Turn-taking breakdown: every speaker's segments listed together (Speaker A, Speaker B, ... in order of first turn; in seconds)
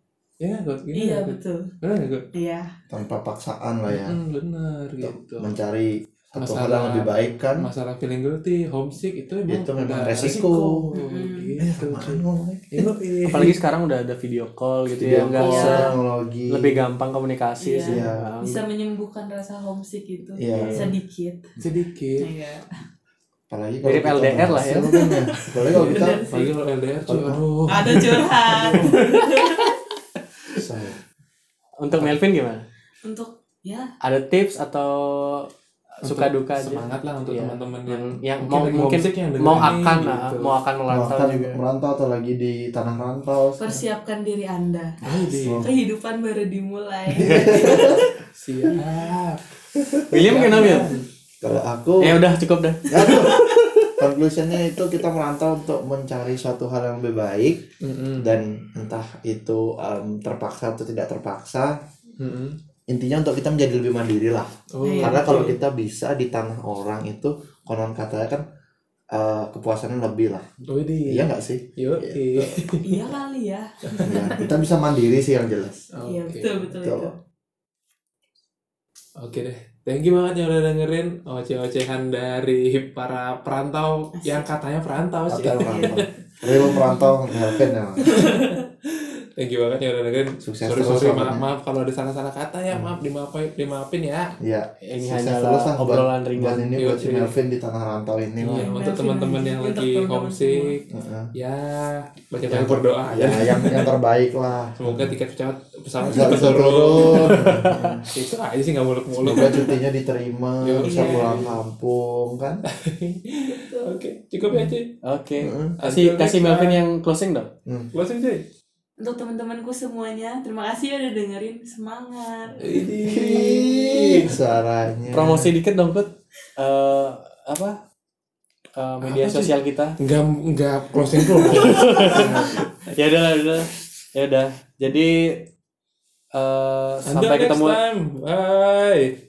Speaker A: 0.4-2.2, 3.9-5.5, 6.4-13.6, 21.6-22.3, 25.7-29.1, 36.0-40.6, 45.0-45.6, 47.3-47.8, 48.4-51.0, 57.8-58.4, 62.2-62.6, 64.7-65.6, 70.7-73.0, 73.9-74.3, 75.9-76.7, 79.2-86.0, 88.1-94.3, 96.7-97.3, 98.4-103.9, 104.8-107.5, 108.1-109.7, 110.6-111.6, 112.7-114.9, 115.8-116.8, 117.9-118.5, 122.6-124.4, 129.0-132.6, 137.1-139.1
Speaker B: 0.9-1.7, 2.3-2.7, 10.9-11.5, 15.4-15.9, 17.6-21.6, 22.2-22.7, 24.9-26.5, 27.7-29.8, 33.0-33.9, 43.6-45.0, 45.6-48.1, 53.0-53.2, 64.8-65.5, 72.8-74.5, 76.0-77.1, 84.2-84.5, 85.7-87.1, 88.1-88.6, 98.5-100.7, 106.0-106.6, 110.8-111.4, 113.5-114.0, 119.0-122.7
Speaker C: 2.9-4.2, 5.0-7.7, 9.5-10.9, 11.6-12.8, 14.9-16.8, 17.8-18.2, 20.4-20.9, 23.5-26.2, 27.0-28.1, 30.5-31.0, 39.5-39.8, 40.9-43.7, 45.3-45.7, 47.1-48.0, 49.8-50.0, 51.4-52.2, 52.9-57.6, 58.2-61.8, 62.9-68.4, 69.1-70.5, 71.0-72.6, 74.0-75.9, 76.7-77.1, 85.3-88.1, 90.4-91.4, 94.4-98.7, 100.9-101.3, 102.5-105.1, 106.0-108.1, 109.2-112.6, 115.4-115.8, 123.0-125.5
Speaker D: 12.8-15.9, 16.5-18.6, 20.5-20.9, 23.8-24.9, 31.8-32.6, 34.0-35.5, 36.0-41.6, 50.1-50.9, 52.0-53.9, 94.8-96.8, 107.2-108.0, 115.0-117.5, 125.1-127.8, 128.8-130.0, 131.2-135.5, 136.3-137.8